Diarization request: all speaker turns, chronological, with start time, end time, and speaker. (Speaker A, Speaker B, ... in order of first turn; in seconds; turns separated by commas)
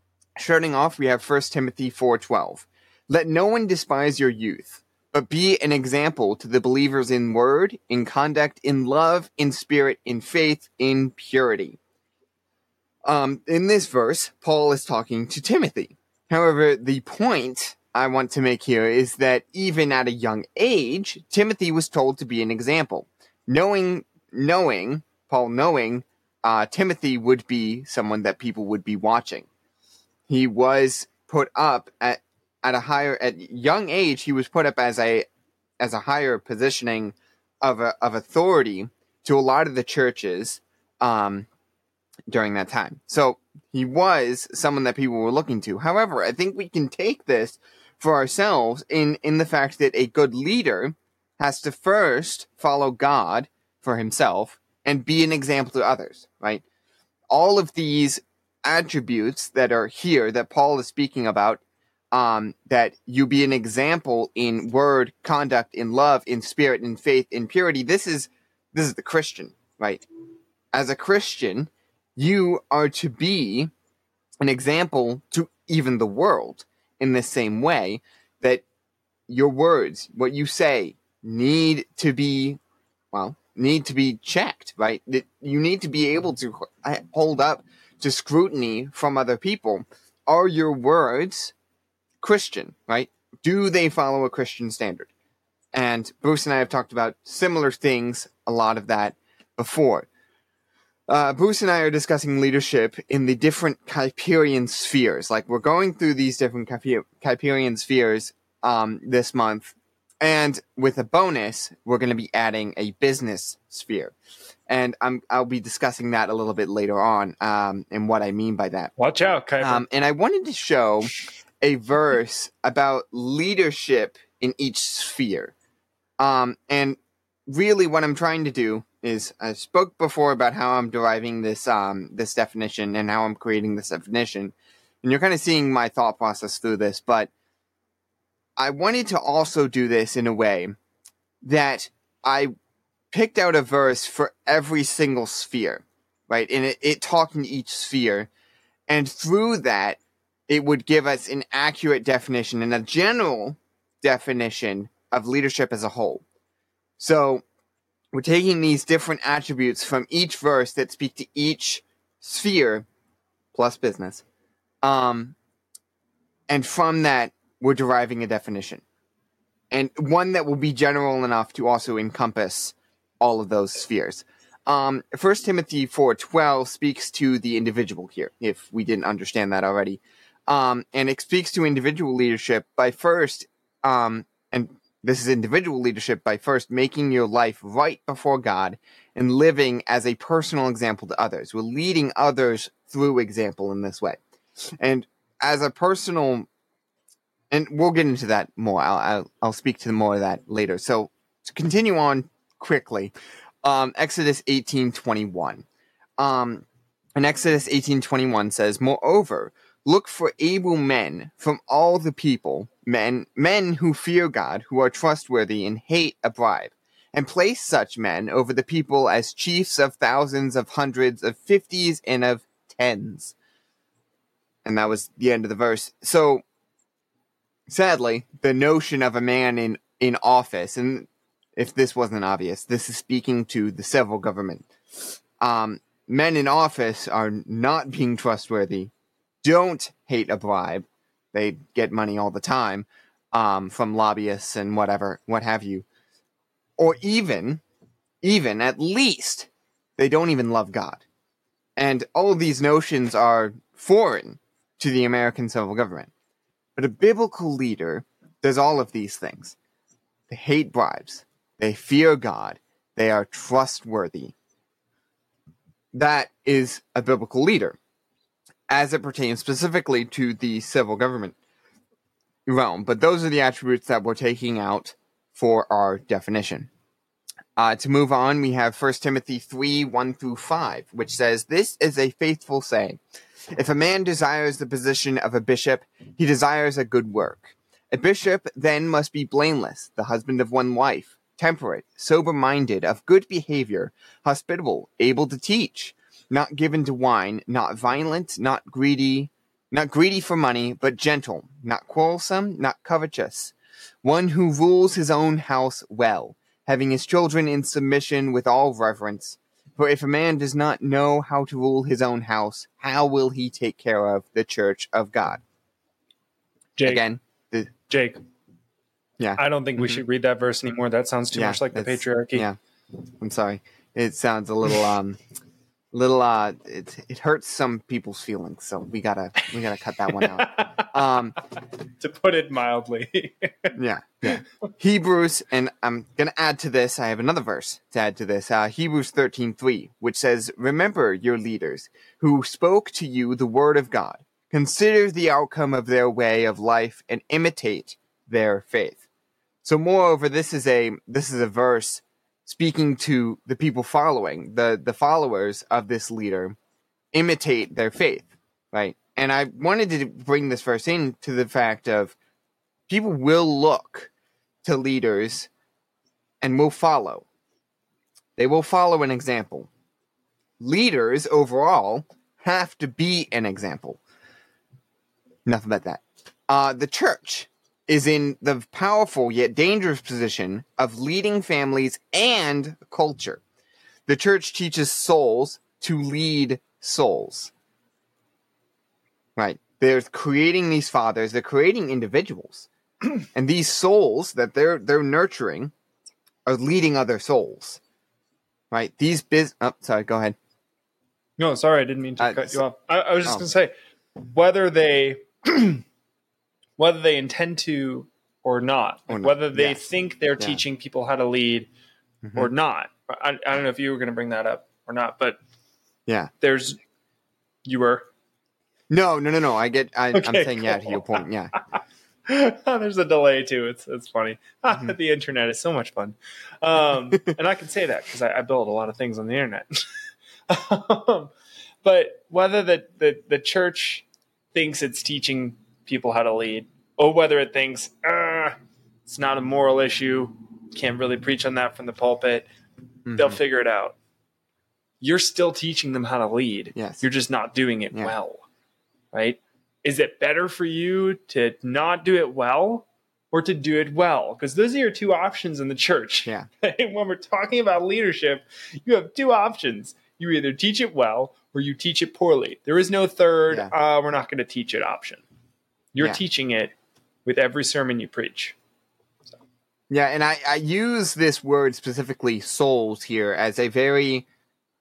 Speaker A: 0.4-11.8, Speaker A: 13.0-29.5, Speaker A: 30.3-35.3, Speaker A: 35.8-41.5, Speaker A: 42.3-56.6, Speaker A: 57.3-70.0, Speaker A: 70.7-73.7, Speaker A: 74.4-78.6, Speaker A: 79.3-82.6, Speaker A: 83.1-91.5, Speaker A: 92.2-95.1, Speaker A: 95.7-100.1, Speaker A: 101.1-114.1, Speaker A: 114.7-118.9, Speaker B: 119.0-119.8, Speaker A: 119.6-125.5, Speaker A: 126.2-127.0, Speaker A: 127.5-137.3, Speaker A: 138.6-140.7, Speaker A: 141.4-142.5, Speaker A: 143.1-148.3, Speaker A: 148.9-156.2, Speaker A: 157.0-157.4, Speaker A: 158.1-162.8, Speaker A: 163.5-164.2, Speaker A: 164.8-165.3, Speaker A: 166.5-168.8, Speaker A: 169.7-194.2, Speaker A: 194.8-196.5, Speaker A: 197.5-205.6, Speaker A: 206.2-206.7, Speaker A: 207.2-223.3, Speaker A: 224.6-226.4, Speaker A: 227.7-234.7, Speaker A: 235.4-238.9, Speaker A: 239.4-245.8, Speaker A: 246.8-247.6, Speaker A: 248.2-251.0, Speaker A: 251.8-256.1, Speaker A: 256.8-259.6, Speaker A: 260.3-264.3, Speaker A: 265.9-267.8, Speaker A: 268.7-271.4, Speaker A: 272.4-276.7, Speaker A: 277.6-283.0, Speaker A: 283.5-315.4, Speaker B: 316.8-317.0, Speaker A: 316.8-317.7, Speaker B: 317.9-318.2, Speaker A: 319.2-320.0, Speaker B: 319.4-322.5, Speaker A: 321.3-322.6, Speaker A: 323.2-325.2, Speaker A: 325.9-331.4, Speaker B: 330.1-330.9, Speaker B: 332.0-333.7, Speaker A: 333.7-349.0, Speaker A: 349.6-356.6, Speaker A: 357.1-362.1, Speaker A: 362.9-364.1, Speaker A: 364.6-365.5, Speaker A: 366.4-367.2, Speaker A: 368.4-369.7, Speaker A: 370.6-374.0, Speaker A: 375.4-383.4, Speaker A: 384.1-387.5, Speaker A: 389.4-392.7, Speaker A: 393.3-395.7, Speaker A: 396.4-397.8, Speaker A: 398.7-400.4, Speaker B: 401.4-405.8, Speaker A: 402.2-402.6, Speaker B: 406.8-411.7, Speaker A: 409.1-409.9, Speaker A: 412.2-412.5, Speaker B: 412.3-415.4, Speaker B: 416.4-416.8, Speaker B: 417.6-418.1, Speaker A: 418.9-421.5, Speaker B: 420.1-421.2, Speaker B: 422.3-429.8, Speaker B: 430.5-431.3, Speaker B: 431.8-442.5, Speaker A: 443.1-443.4, Speaker B: 443.1-443.9, Speaker B: 445.0-448.4, Speaker A: 446.7-447.0, Speaker B: 449.1-465.2, Speaker B: 465.9-466.7, Speaker B: 467.2-468.6, Speaker A: 469.9-474.2